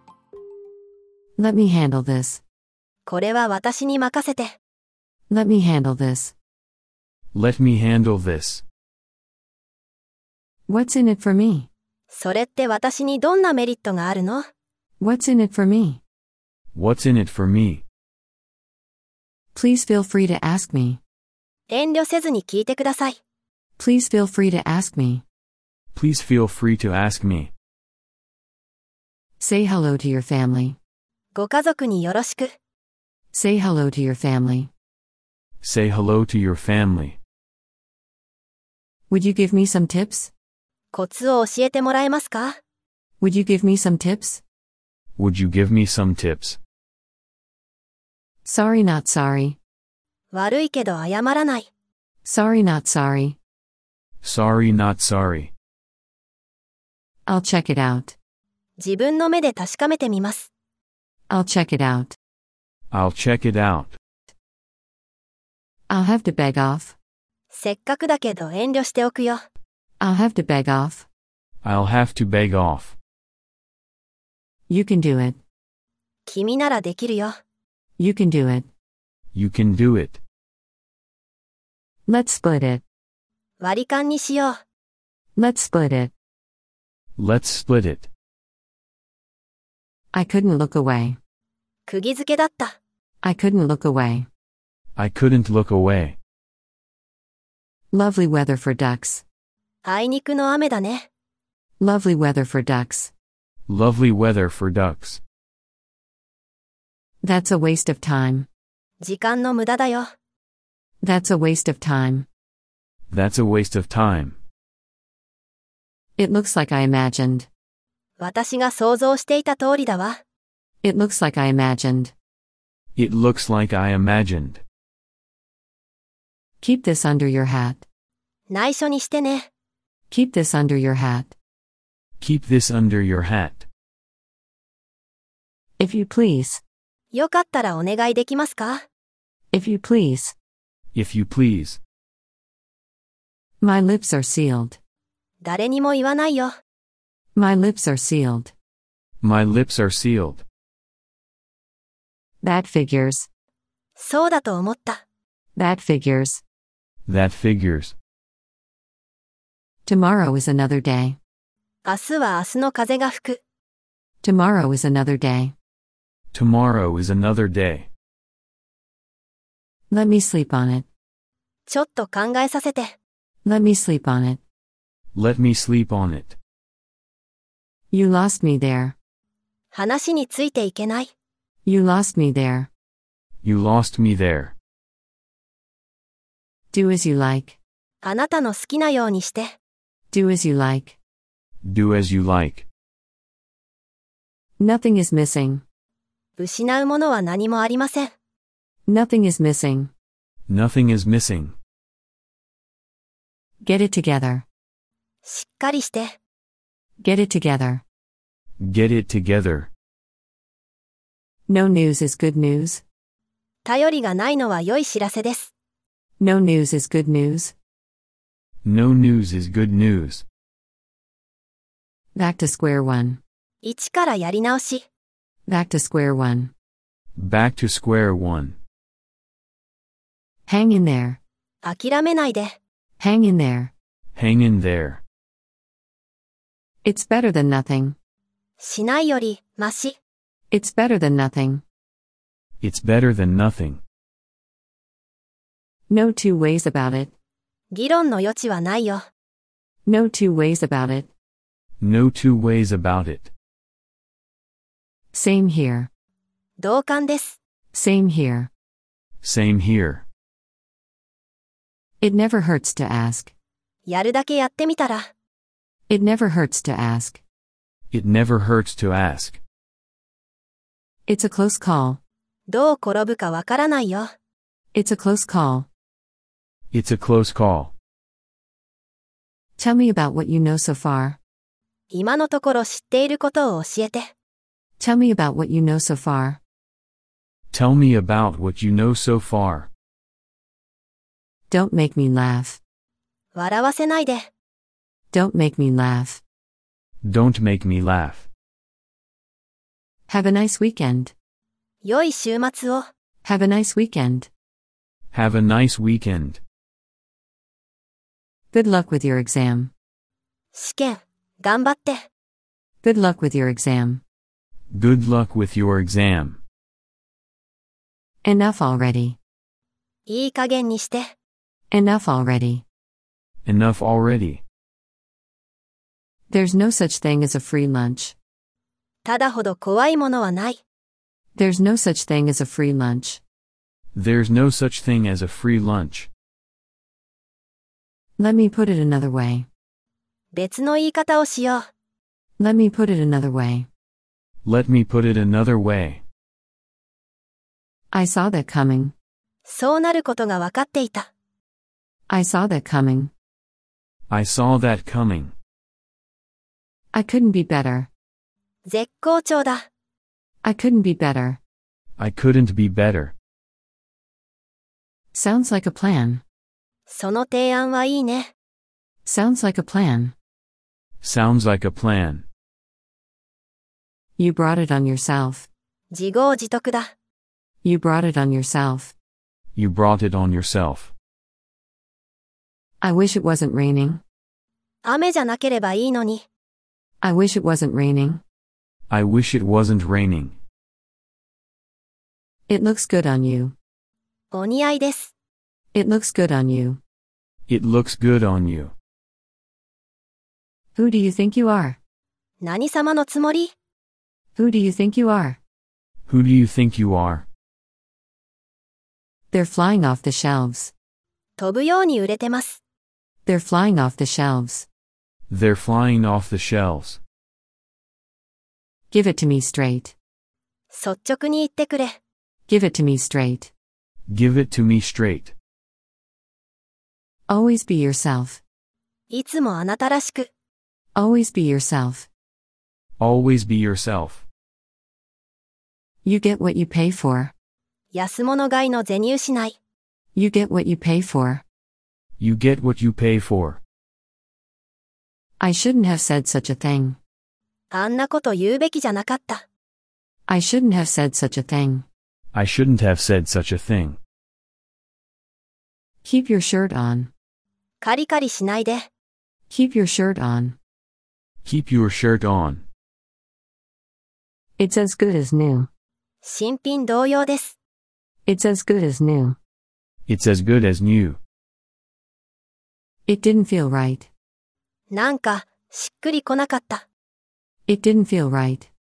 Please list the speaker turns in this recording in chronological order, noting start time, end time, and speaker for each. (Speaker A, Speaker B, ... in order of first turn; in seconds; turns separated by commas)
Speaker A: 1.4-2.4, Speaker B: 3.0-4.5, Speaker A: 5.3-6.3, Speaker C: 7.3-8.6, Speaker A: 10.7-11.7, Speaker B: 12.1-14.4, Speaker A: 15.0-16.0, Speaker C: 16.7-17.8, Speaker A: 19.5-21.0, Speaker B: 21.7-23.2, Speaker A: 23.8-25.2, Speaker C: 25.9-27.5, Speaker A: 29.4-30.8, Speaker B: 31.3-32.5, Speaker A: 33.3-34.7, Speaker C: 35.6-37.2, Speaker A: 39.1-40.3, Speaker B: 40.9-42.6, Speaker A: 43.2-44.4, Speaker C: 45.2-46.6, Speaker A: 48.4-49.6, Speaker B: 50.3-51.7, Speaker A: 52.2-53.4, Speaker C: 54.2-55.5, Speaker A: 57.3-58.1, Speaker B: 58.8-60.5, Speaker A: 61.3-62.1, Speaker C: 62.9-64.0, Speaker A: 65.9-67.0, Speaker B: 67.5-69.4, Speaker A: 70.0-71.1, Speaker C: 71.6-73.0, Speaker A: 74.7-75.4, Speaker B: 76.2-77.3, Speaker A: 78.0-78.7, Speaker C: 79.3-80.2, Speaker A: 82.1-82.8, Speaker B: 83.6-84.6, Speaker A: 85.3-86.1, Speaker C: 87.2-88.1, Speaker A: 90.1-91.2, Speaker B: 91.8-92.7, Speaker A: 93.2-94.3, Speaker C: 95.0-96.2, Speaker A: 97.9-99.2, Speaker B: 99.8-101.0, Speaker A: 101.8-103.1, Speaker C: 103.7-105.2, Speaker A: 107.2-108.5, Speaker B: 109.0-110.1, Speaker A: 111.0-112.3, Speaker C: 113.1-114.4, Speaker A: 116.2-117.5, Speaker B: 118.2-120.2, Speaker A: 120.8-122.1, Speaker C: 122.9-124.6, Speaker A: 126.6-127.8, Speaker B: 128.5-129.5, Speaker A: 130.1-131.3, Speaker C: 132.2-133.7, Speaker A: 135.8-136.6, Speaker B: 137.1-138.8, Speaker A: 139.5-140.3, Speaker C: 140.9-141.8, Speaker A: 143.6-144.8, Speaker B: 145.4-146.5, Speaker A: 147.3-148.5, Speaker C: 149.2-150.4, Speaker A: 152.4-153.3, Speaker B: 154.0-155.0, Speaker A: 155.5-156.4, Speaker C: 157.1-157.9, Speaker A: 159.8-161.2, Speaker B: 161.8-163.4, Speaker A: 164.2-165.5, Speaker C: 166.3-167.9, Speaker A: 169.9-170.8, Speaker B: 171.7-172.9, Speaker A: 173.4-174.4, Speaker C: 175.1-176.4, Speaker A: 177.9-178.9, Speaker B: 179.7-181.1, Speaker A: 181.6-182.7, Speaker C: 183.4-184.5, Speaker A: 186.7-187.6, Speaker B: 188.0-189.5, Speaker A: 190.1-191.0, Speaker C: 191.6-192.7, Speaker A: 194.6-195.6, Speaker B: 196.4-198.1, Speaker A: 198.9-199.9, Speaker C: 200.5-201.6, Speaker A: 203.6-204.4, Speaker B: 205.2-206.2, Speaker A: 207.0-207.8, Speaker C: 208.6-209.7, Speaker A: 211.5-212.8, Speaker B: 213.6-215.5, Speaker A: 216.2-217.5, Speaker C: 218.6-220.2, Speaker A: 222.1-223.2, Speaker B: 223.6-224.8, Speaker A: 225.5-226.5, Speaker C: 227.2-228.6, Speaker A: 230.5-231.2, Speaker B: 231.6-232.6, Speaker A: 233.0-233.7, Speaker C: 234.1-235.0, Speaker A: 236.8-237.9, Speaker B: 238.6-240.0, Speaker A: 240.5-241.6, Speaker C: 242.6-243.8, Speaker A: 245.9-247.1, Speaker B: 247.7-249.1, Speaker A: 249.8-251.1, Speaker C: 251.8-253.3, Speaker A: 255.1-255.9, Speaker B: 256.6-257.4, Speaker A: 257.7-258.5, Speaker C: 259.2-260.0, Speaker A: 262.0-263.3, Speaker B: 263.9-265.1, Speaker A: 265.9-267.2, Speaker C: 267.9-269.4, Speaker A: 271.1-272.0, Speaker B: 272.5-274.1, Speaker A: 274.7-275.7, Speaker C: 276.7-277.7, Speaker A: 279.6-281.2, Speaker B: 281.9-284.1, Speaker A: 284.8-286.4, Speaker C: 287.5-289.7, Speaker A: 291.5-292.6, Speaker B: 293.3-294.3, Speaker A: 295.1-296.2, Speaker C: 297.0-298.3, Speaker A: 300.1-301.1, Speaker B: 301.8-302.9, Speaker A: 303.2-304.3, Speaker C: 305.1-306.4, Speaker A: 308.5-309.7, Speaker B: 310.5-312.0, Speaker A: 312.8-314.0, Speaker C: 314.7-316.4, Speaker A: 318.2-319.2, Speaker B: 320.1-321.1, Speaker A: 321.7-322.6, Speaker C: 323.4-324.4, Speaker A: 326.3-328.1, Speaker B: 329.0-330.6, Speaker A: 331.3-333.2, Speaker C: 333.9-336.1, Speaker A: 338.2-339.5, Speaker B: 340.3-341.7, Speaker A: 342.4-343.7, Speaker C: 344.4-346.0, Speaker A: 347.9-348.9, Speaker B: 349.4-351.1, Speaker A: 352.1-353.1, Speaker C: 354.1-355.3, Speaker A: 356.9-357.9, Speaker B: 358.6-359.6, Speaker A: 360.4-361.4, Speaker C: 362.0-363.1, Speaker A: 365.1-366.2, Speaker B: 366.9-368.3, Speaker A: 369.0-370.1, Speaker C: 371.0-372.2, Speaker A: 374.2-375.5, Speaker B: 375.9-376.9, Speaker A: 377.6-378.9, Speaker C: 379.5-380.9, Speaker A: 382.8-384.0, Speaker B: 384.8-386.2, Speaker A: 387.0-388.2, Speaker C: 388.9-390.4, Speaker A: 392.5-393.5, Speaker B: 394.3-395.1, Speaker A: 395.7-396.8, Speaker C: 397.5-398.7, Speaker A: 400.7-401.8, Speaker B: 402.4-403.5, Speaker A: 404.4-405.4, Speaker C: 406.1-407.2, Speaker A: 409.3-410.7, Speaker B: 411.4-412.6, Speaker A: 413.2-414.7, Speaker C: 415.3-417.0, Speaker A: 418.9-419.9, Speaker B: 420.7-421.9, Speaker A: 422.5-423.5, Speaker C: 424.1-425.3, Speaker A: 427.3-428.4, Speaker B: 429.1-430.3, Speaker A: 430.9-432.1, Speaker C: 433.0-434.2, Speaker A: 436.0-437.3, Speaker B: 437.9-439.6, Speaker A: 440.1-441.4, Speaker C: 442.2-443.6, Speaker A: 445.4-447.0, Speaker B: 447.7-449.4, Speaker A: 450.3-451.8, Speaker C: 452.3-454.0, Speaker A: 456.0-457.1, Speaker B: 457.8-458.9, Speaker A: 459.5-460.6, Speaker C: 461.4-462.6, Speaker A: 464.6-465.7, Speaker B: 466.2-467.6, Speaker A: 468.2-469.4, Speaker C: 470.1-471.2, Speaker A: 473.1-474.1, Speaker B: 474.9-476.8, Speaker A: 477.7-478.7